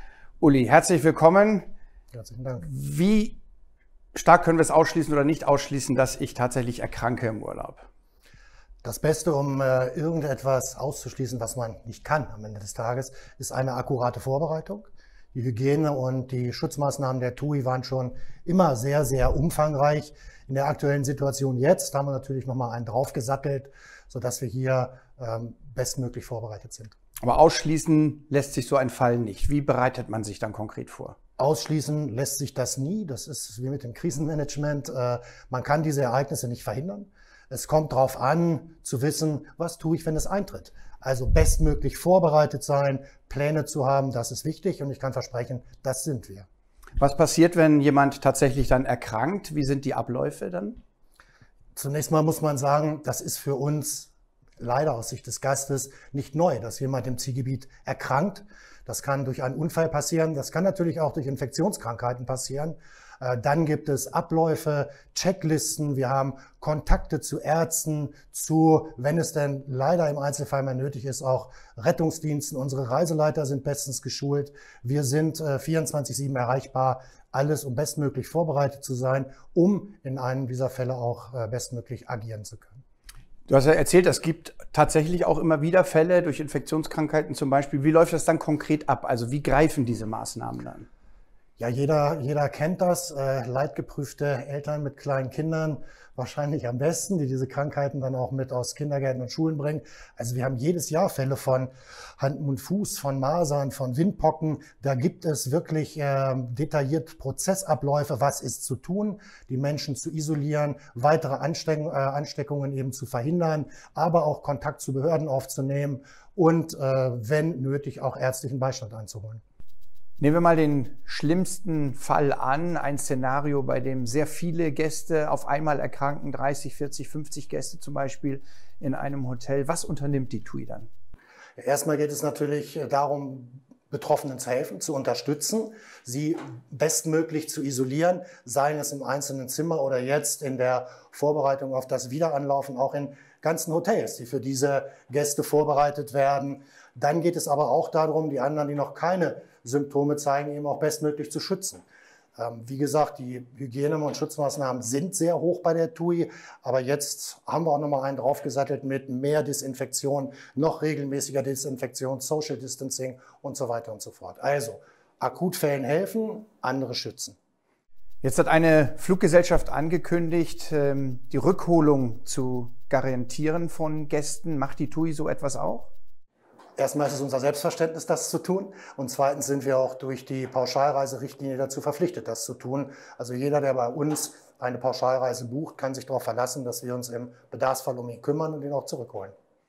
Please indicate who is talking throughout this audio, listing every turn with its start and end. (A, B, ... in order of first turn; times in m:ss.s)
0:00.4-0:01.7 A
0:02.1-0:02.7 B
0:02.6-0:03.4 A
0:04.1-0:07.8 A
0:08.8-0:26.9 B
0:27.2-0:31.2 A
0:31.4-0:46.5 B
0:47.0-0:50.8 A
0:51.8-1:22.8 B
1:23.5-1:30.9 A
1:31.6-1:59.4 B
2:00.2-2:10.9 A
2:11.6-2:31.8 B
2:32.4-2:47.4 B
2:48.2-2:55.9 A
2:56.8-3:09.3 B